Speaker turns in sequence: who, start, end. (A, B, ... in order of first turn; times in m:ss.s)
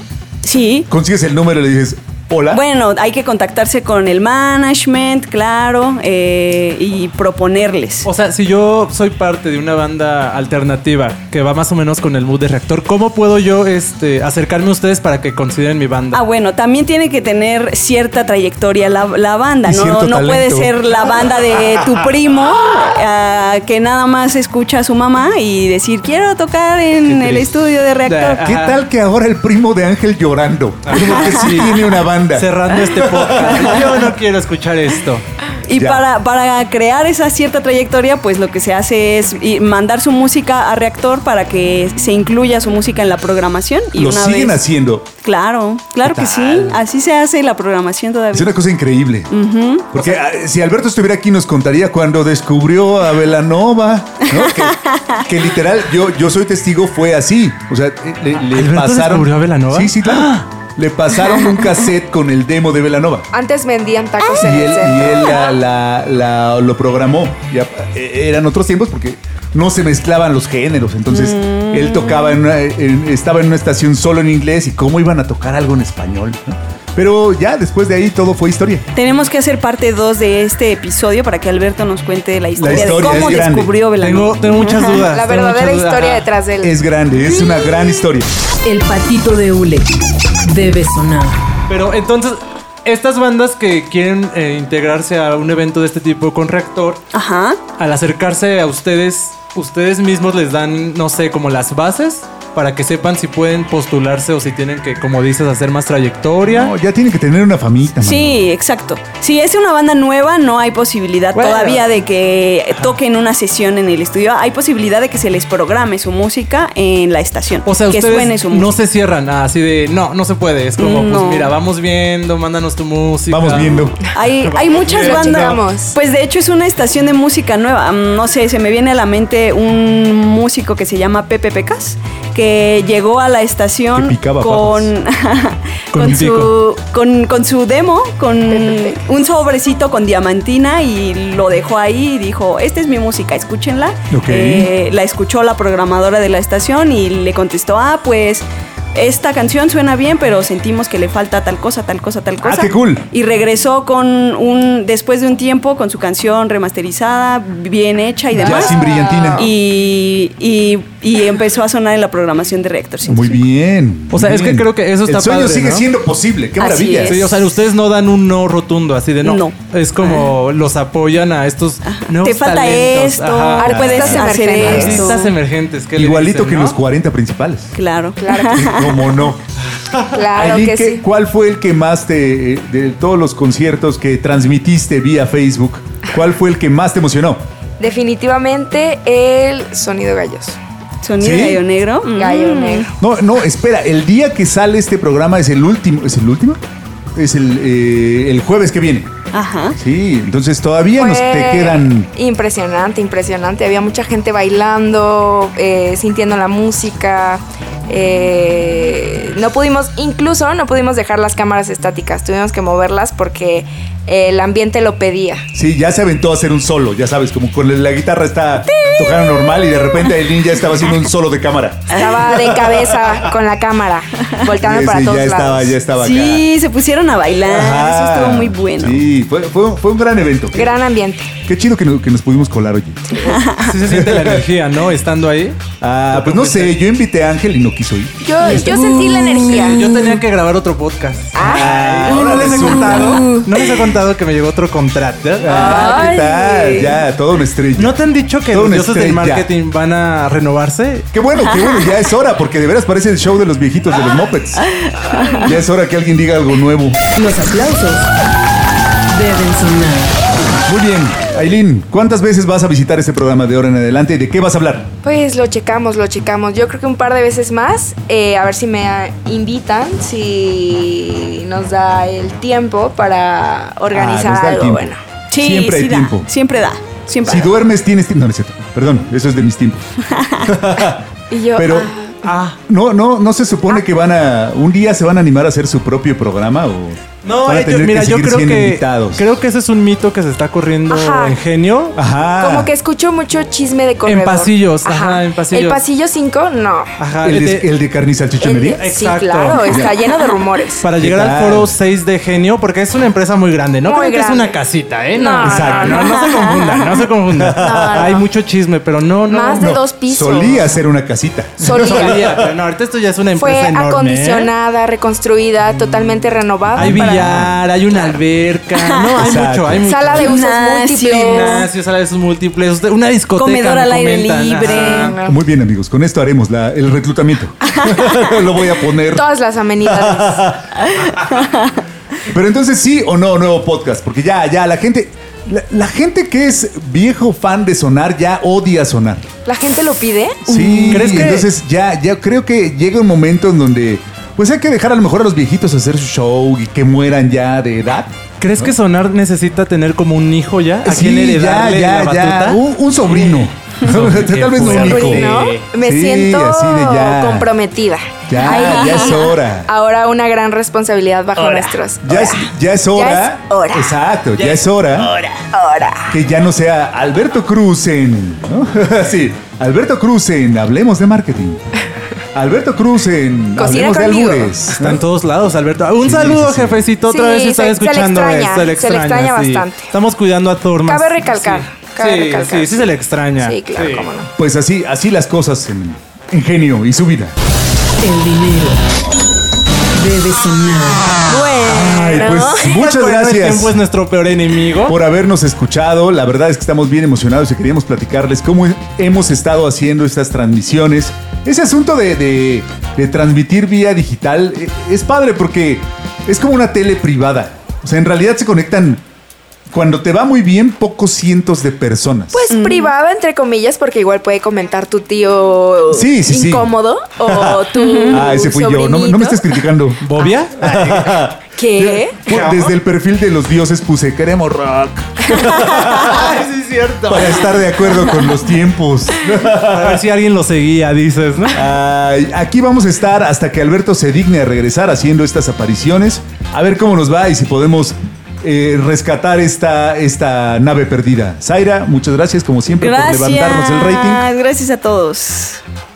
0:00.4-0:00.9 A
0:00.9-0:02.6 B
0:02.5-0:08.1 A
0:08.0-0:16.2 C
0:16.1-0:28.5 A
0:19.6-0:20.7 B
0:27.0-0:28.8 C
0:28.4-0:33.6 B
0:30.8-0:35.2 C
0:33.4-0:33.8 A
0:35.7-0:44.6 A
0:35.7-0:36.0 B
0:43.9-0:45.1 B
0:45.2-0:48.6 A
0:46.0-0:46.8 B
0:48.3-0:49.3 B
0:49.3-0:50.2 A
0:49.9-1:03.3 B
0:54.4-0:55.2 A
0:58.3-1:00.4 C
1:03.3-1:05.5 D
1:04.3-1:18.8 B
1:11.1-1:12.4 A
1:18.9-1:25.1 A
1:22.6-1:23.7 B
1:24.0-1:26.2 C
1:25.0-1:26.8 D
1:26.6-1:28.3 B
1:27.4-1:27.7 A
1:28.6-1:29.9 E
1:30.4-1:31.4 E
1:31.7-1:37.0 C
1:37.1-1:37.6 A
1:37.8-1:46.7 C
1:46.4-1:48.4 B
1:47.9-1:58.8 A
1:51.3-1:51.9 C
1:57.6-2:05.6 C
2:00.8-2:01.6 A
2:03.3-2:04.0 B
2:04.1-2:43.4 A
2:04.7-2:06.0 D
2:13.9-2:14.9 B
2:15.9-2:16.5 C
2:18.4-2:19.0 D
2:24.1-2:24.7 B
2:32.4-2:33.0 B
2:38.4-2:39.5 B
2:38.5-2:39.5 D
2:43.0-2:47.3 B
2:44.1-2:45.9 C
2:46.6-2:47.4 A
2:47.0-2:53.9 C
2:49.2-2:50.3 A
2:51.8-2:55.2 A
2:53.5-2:55.3 D
2:53.6-2:54.8 B
2:54.5-2:56.8 C
2:55.9-2:57.7 B
2:57.7-2:59.0 A
2:58.2-2:58.8 D
2:58.5-2:59.4 B
3:00.1-3:01.0 D
3:00.3-3:07.4 B
3:07.8-3:10.6 D
3:11.0-3:12.9 A
3:11.2-3:11.6 B
3:12.1-3:12.9 D
3:13.0-3:16.6 B
3:17.1-3:19.1 B
3:19.3-3:19.8 A
3:19.8-3:22.1 B
3:21.0-3:35.4 D
3:35.5-3:42.4 B
3:38.7-3:40.1 A
3:41.9-3:42.7 A
3:42.0-3:45.8 D
3:44.6-3:46.5 B
3:45.9-3:49.0 A
3:47.5-3:50.7 B
3:50.5-3:51.3 D
3:51.4-3:53.2 B
3:53.1-3:53.4 D
3:53.2-3:53.7 A
3:53.4-3:55.6 C
3:53.8-3:54.4 B
3:55.8-3:58.8 B
3:56.1-3:56.8 C
3:58.2-3:59.8 D
3:58.4-4:00.2 A
3:59.4-4:05.9 C
4:01.3-4:03.0 D
4:01.4-4:03.3 B
4:02.1-4:03.5 A
4:05.4-4:09.5 B
4:05.4-4:07.0 D
4:07.8-4:11.0 C
4:11.1-4:14.6 B
4:11.5-4:12.0 A
4:15.0-4:15.5 A
4:15.3-4:17.0 B
4:17.2-4:18.1 E
4:19.1-4:20.1 E
4:20.7-4:24.9 B
4:25.0-4:35.0 D
4:33.9-4:36.3 B
4:35.3-4:37.5 A
4:37.2-4:41.0 B
4:41.3-4:42.2 D
4:41.6-4:41.9 B
4:42.2-4:42.6 C
4:42.7-4:49.2 B
4:47.2-4:52.0 C
4:50.9-4:51.4 D
4:52.0-4:52.7 B
4:52.4-4:56.9 D
4:54.0-4:55.8 C
4:57.0-4:57.7 C
4:57.2-4:58.9 B
4:58.4-5:00.8 D
4:58.8-4:59.9 C
4:59.5-4:59.9 B
5:00.8-5:09.7 C
5:01.0-5:01.7 B
5:03.8-5:04.6 D
5:05.1-5:06.0 D
5:05.4-5:06.0 B
5:05.9-5:07.1 A
5:07.3-5:08.1 B
5:07.6-5:08.2 D
5:09.3-5:10.8 D
5:09.6-5:12.5 B
5:11.6-5:14.5 C
5:11.6-5:12.3 D
5:13.4-5:17.5 D
5:16.7-5:17.5 B
5:16.7-5:20.4 C
5:18.8-5:19.2 A
5:19.2-5:19.8 B
5:19.8-5:21.6 D
5:20.2-5:21.7 A
5:21.1-5:25.1 C
5:23.3-5:25.1 A
5:24.6-5:25.4 D
5:25.2-5:29.2 B
5:27.7-5:28.4 A
5:29.1-5:30.5 D
5:29.9-5:30.7 B
5:30.8-5:31.7 A
5:32.3-5:39.3 B
5:39.4-5:40.6 D
5:40.5-5:48.7 B
5:40.5-5:41.1 A
5:40.9-5:41.5 C
5:48.4-5:55.6 C
5:50.8-5:57.5 B
5:54.7-6:04.0 D
5:58.3-5:59.7 B
5:58.6-5:59.1 A
6:01.4-6:01.8 C
6:02.0-6:05.1 B
6:04.3-6:05.3 C
6:05.3-6:06.1 D
6:06.1-6:11.7 B
6:12.3-6:15.0 B
6:13.6-6:14.5 D
6:14.7-6:24.1 C
6:16.0-6:16.8 B
6:17.0-6:19.9 D
6:20.8-6:24.3 D
6:24.4-6:27.3 B
6:28.0-6:28.8 E
6:29.9-6:31.2 E
6:31.2-6:32.7 D
6:31.7-6:33.8 B
6:32.7-6:35.0 C
6:34.8-6:49.0 B
6:49.7-6:52.4 B
6:52.3-6:59.6 D
6:52.5-6:52.9 A
6:55.9-6:56.7 B
6:57.2-7:06.3 B
6:57.8-6:58.2 A
7:00.0-7:01.2 C
7:01.6-7:02.2 D
7:02.2-7:02.7 C
7:05.4-7:07.9 C
7:07.1-7:10.0 B
7:09.5-7:11.6 C
7:11.5-7:24.2 B
7:22.7-7:25.6 A